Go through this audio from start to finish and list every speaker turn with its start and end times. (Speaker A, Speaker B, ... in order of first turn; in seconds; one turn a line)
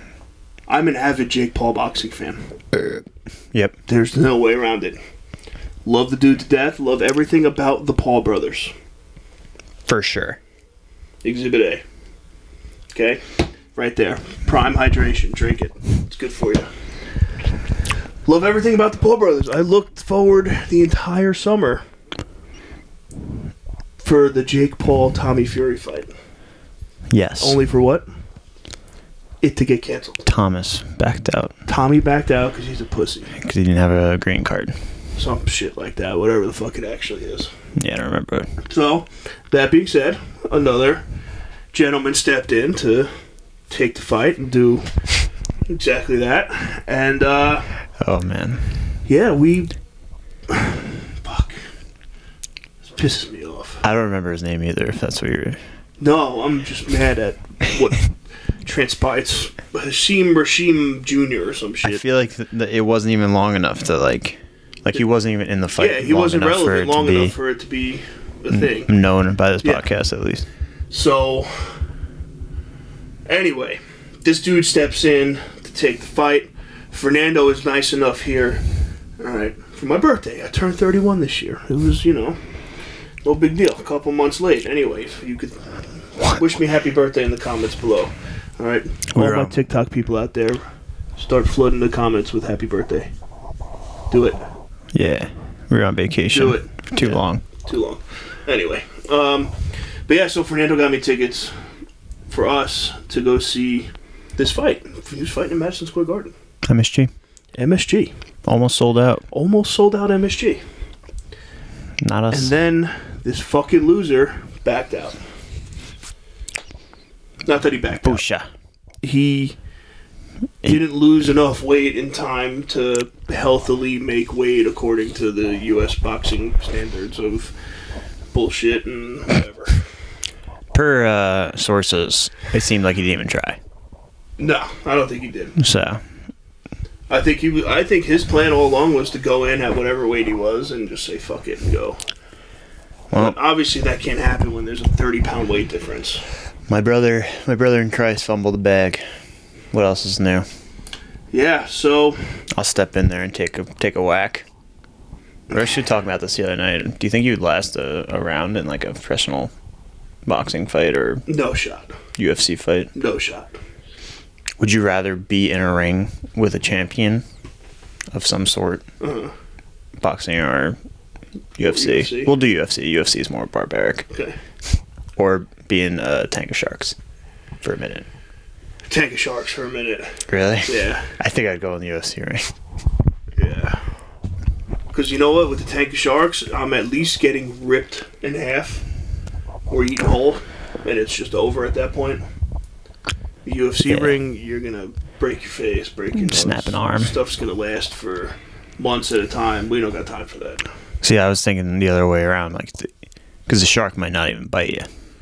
Speaker A: 0.7-2.5
Speaker B: 2.7-3.8
Speaker A: 3.9-5.0
Speaker A: 5.8-8.7
Speaker B: 9.9-10.4
Speaker A: 11.2-11.8
Speaker A: 12.9-16.7
Speaker A: 18.3-21.8
Speaker A: 24.0-26.1
Speaker B: 27.1-27.6
Speaker A: 27.4-28.1
Speaker A: 29.4-30.2
Speaker B: 30.2-31.5
Speaker A: 31.7-33.3
Speaker B: 33.3-34.8
Speaker A: 35.2-37.5
Speaker B: 37.8-38.5
Speaker A: 38.6-41.0
Speaker A: 41.7-43.1
Speaker A: 43.7-44.9
Speaker A: 45.7-47.7
Speaker B: 48.0-48.6
Speaker A: 49.1-49.7
Speaker A: 50.5-51.6
Speaker A: 52.9-53.8
Speaker B: 53.8-55.6
Speaker A: 56.0-58.1
Speaker A: 58.6-62.0
Speaker B: 61.8-67.4
Speaker A: 65.8-69.0
Speaker B: 68.5-70.5
Speaker A: 70.9-71.8
Speaker A: 73.3-78.6
Speaker A: 79.2-82.4
Speaker A: 83.2-90.6
Speaker B: 89.1-89.6
Speaker A: 91.2-93.1
Speaker A: 94.1-94.4
Speaker B: 94.9-97.4
Speaker A: 96.3-99.5
Speaker A: 100.1-101.5
Speaker A: 102.3-106.3
Speaker B: 106.7-107.1
Speaker A: 107.6-108.1
Speaker B: 108.5-109.2
Speaker A: 109.3-110.6
Speaker B: 112.0-112.5
Speaker A: 112.3-115.2
Speaker A: 117.5-118.2
Speaker B: 118.0-118.5
Speaker A: 119.0-119.6
Speaker A: 120.6-127.5
Speaker A: 128.3-129.8
Speaker B: 130.7-133.6
Speaker A: 134.4-135.6
Speaker B: 135.6-136.0
Speaker A: 137.1-142.0
Speaker B: 143.1-143.4
Speaker A: 143.1-146.2
Speaker B: 146.7-149.0
Speaker B: 149.7-150.5
Speaker A: 151.3-152.2
Speaker B: 152.5-154.5
Speaker B: 155.5-159.5
Speaker B: 160.3-161.2
Speaker A: 161.3-162.0
Speaker B: 162.2-162.9
Speaker A: 162.9-163.6
Speaker B: 164.6-167.2
Speaker B: 168.1-168.8
Speaker A: 169.0-169.3
Speaker B: 170.0-170.8
Speaker B: 171.6-174.1
Speaker A: 171.6-172.3
Speaker A: 174.1-174.4
Speaker B: 175.2-177.0
Speaker B: 177.6-178.1
Speaker A: 178.9-181.1
Speaker B: 180.3-182.5
Speaker A: 183.4-183.8
Speaker A: 184.9-188.8
Speaker A: 189.7-192.2
Speaker A: 193.4-200.7
Speaker B: 193.9-194.2
Speaker B: 196.2-197.1
Speaker B: 201.0-202.9
Speaker B: 203.5-204.9